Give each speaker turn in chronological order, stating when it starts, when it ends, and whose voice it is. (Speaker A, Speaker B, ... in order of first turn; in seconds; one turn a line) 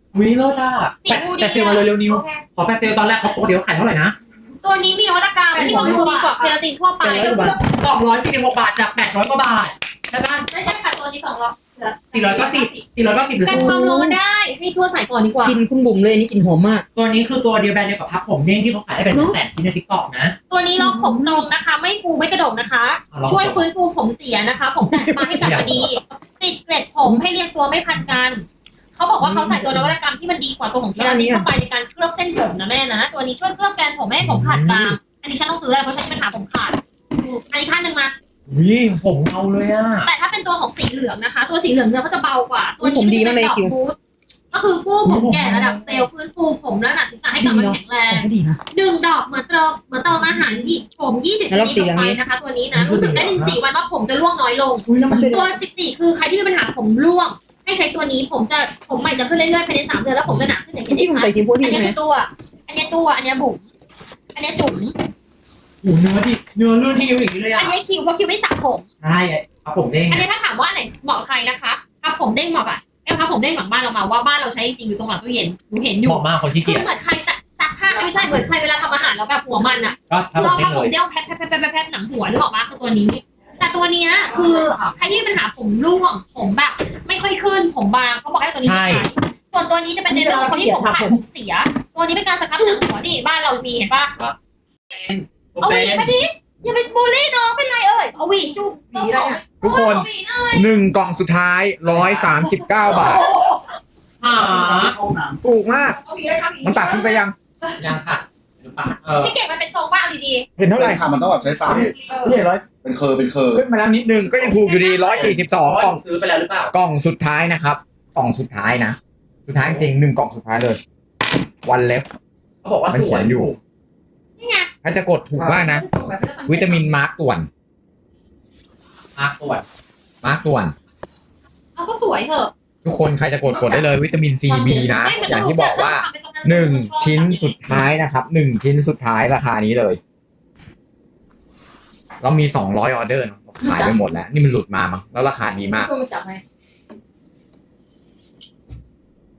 Speaker A: 0.1-4.2
Speaker B: 1.1-2.4
Speaker B: 4.6-7.6
Speaker C: 5.5-6.1
Speaker A: 5.5-6.6
Speaker C: 7.0-7.6
Speaker A: 7.5-10.5
Speaker B: 10.5-12.8
Speaker A: 12.1-13.8
Speaker B: 13.4-15.6
Speaker C: 13.5-14.2
Speaker C: 15.4-16.9
Speaker A: 16.9-20.4
Speaker C: 19.1-19.4
Speaker B: 20.5-38.1
Speaker C: 20.8-21.5
Speaker A: 23.1-23.6
Speaker C: 24.9-25.7
Speaker A: 25.4-26.0
Speaker A: 29.2-29.9
Speaker C: 31.0-31.5
Speaker A: 34.2-35.0
Speaker A: 38.5-40.1
Speaker B: 40.0-44.0
Speaker C: 42.8-43.7
Speaker B: 44.5-63.7
Speaker A: 45.0-46.1
Speaker C: 47.4-48.6
Speaker C: 51.5-52.2
Speaker A: 52.7-53.6
Speaker A: 54.9-55.5
Speaker C: 55.1-55.5
Speaker A: 60.2-60.5
Speaker C: 60.9-62.0
Speaker B: 64.3-65.0
Speaker A: 65.8-67.8
Speaker B: 67.6-68.9
Speaker A: 69.0-70.3
Speaker B: 70.1-94.1
Speaker A: 76.0-76.9
Speaker A: 80.1-80.9
Speaker C: 84.4-84.8
Speaker A: 88.6-89.1
Speaker C: 90.1-91.2
Speaker A: 94.9-96.1
Speaker B: 95.6-100.7
Speaker C: 98.9-99.4
Speaker D: 99.6-103.3
Speaker A: 101.8-103.6
Speaker A: 104.2-105.0
Speaker E: 104.4-105.4
Speaker D: 105.4-106.0
Speaker C: 106.0-107.2
Speaker D: 106.6-107.3
Speaker A: 107.8-109.3
Speaker B: 109.2-110.5
Speaker D: 110.6-111.1
Speaker E: 110.7-111.9
Speaker B: 111.7-112.0
Speaker D: 111.7-112.7
Speaker C: 112.1-112.5
Speaker E: 112.7-113.6
Speaker D: 113.5-116.0
Speaker B: 114.5-115.3
Speaker A: 115.1-116.7
Speaker D: 116.7-120.8
Speaker A: 119.6-119.9
Speaker D: 121.6-122.1
Speaker A: 122.6-123.6
Speaker D: 122.9-123.5
Speaker B: 124.4-124.7
Speaker D: 124.8-125.8
Speaker C: 125.4-127.0
Speaker D: 126.5-127.5
Speaker A: 129.2-129.7
Speaker D: 130.2-130.8
Speaker B: 131.8-132.5
Speaker D: 132.8-140.0
Speaker C: 133.5-133.9
Speaker C: 134.5-135.1
Speaker B: 134.9-137.6
Speaker D: 142.2-145.9
Speaker C: 143.6-143.9
Speaker C: 145.7-146.4